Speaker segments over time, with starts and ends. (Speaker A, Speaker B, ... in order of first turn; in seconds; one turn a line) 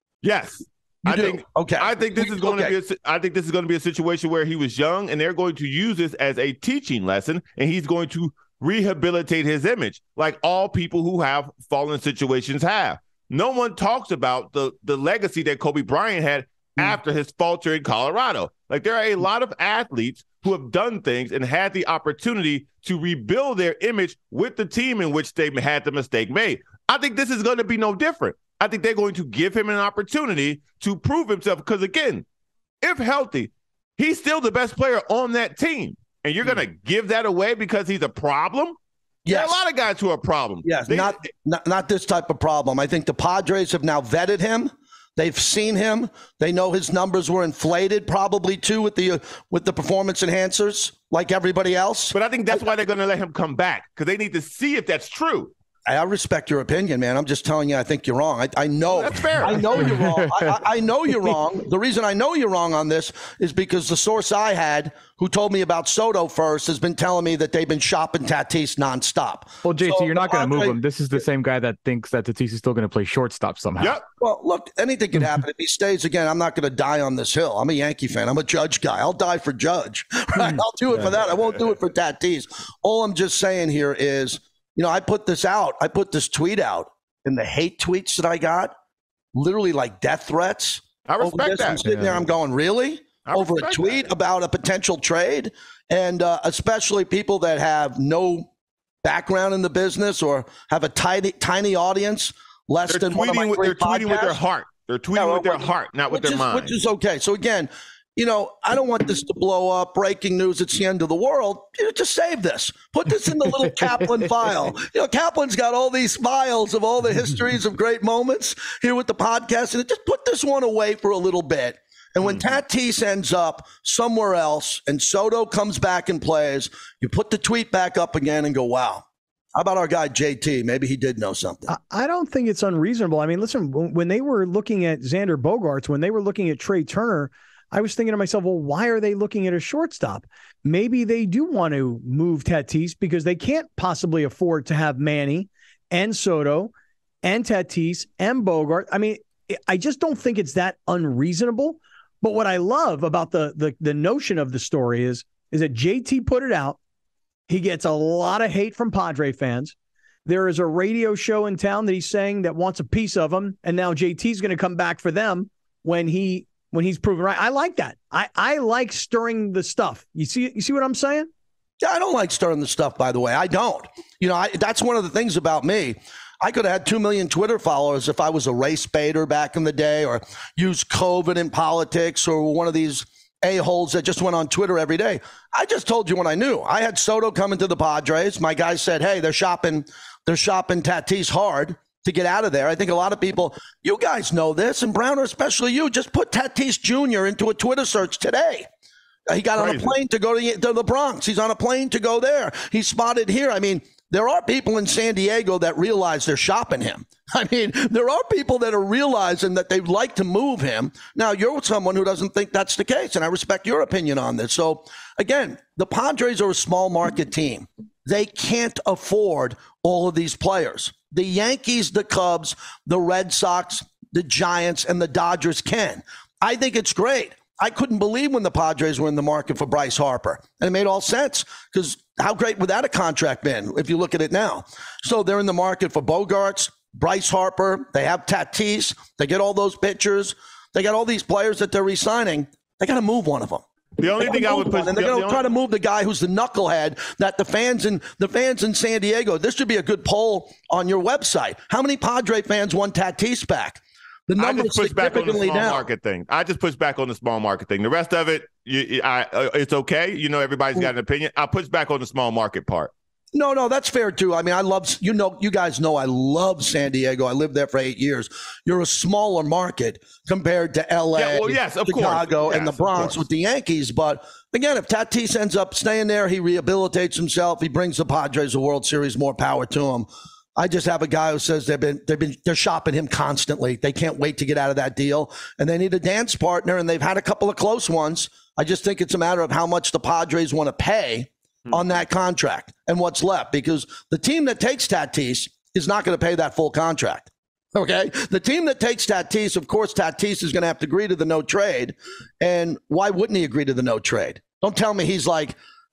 Speaker A: 0.2-32.2
Speaker B: 1.0-2.8
Speaker A: 32.8-38.8
Speaker B: 39.2-39.6
Speaker A: 39.3-41.2
Speaker B: 40.6-52.7
Speaker A: 52.1-55.5
Speaker B: 55.9-70.8
Speaker A: 58.9-59.8
Speaker C: 60.0-60.5
Speaker C: 69.6-74.0
Speaker B: 74.2-88.7
Speaker B: 89.3-98.5
Speaker A: 91.0-91.8
Speaker C: 91.8-92.3
Speaker A: 93.2-94.1
Speaker B: 99.0-104.4
Speaker A: 102.9-106.7
Speaker B: 105.1-131.7
Speaker D: 131.7-146.7
Speaker D: 147.2-156.8
Speaker D: 157.5-159.7
Speaker D: 160.2-171.3
Speaker B: 171.8-198.7
Speaker B: 199.3-243.6
Speaker A: 199.6-199.9
Speaker A: 244.0-245.4
Speaker B: 244.2-255.9
Speaker A: 254.4-262.9
Speaker B: 263.3-305.6
Speaker A: 271.1-273.2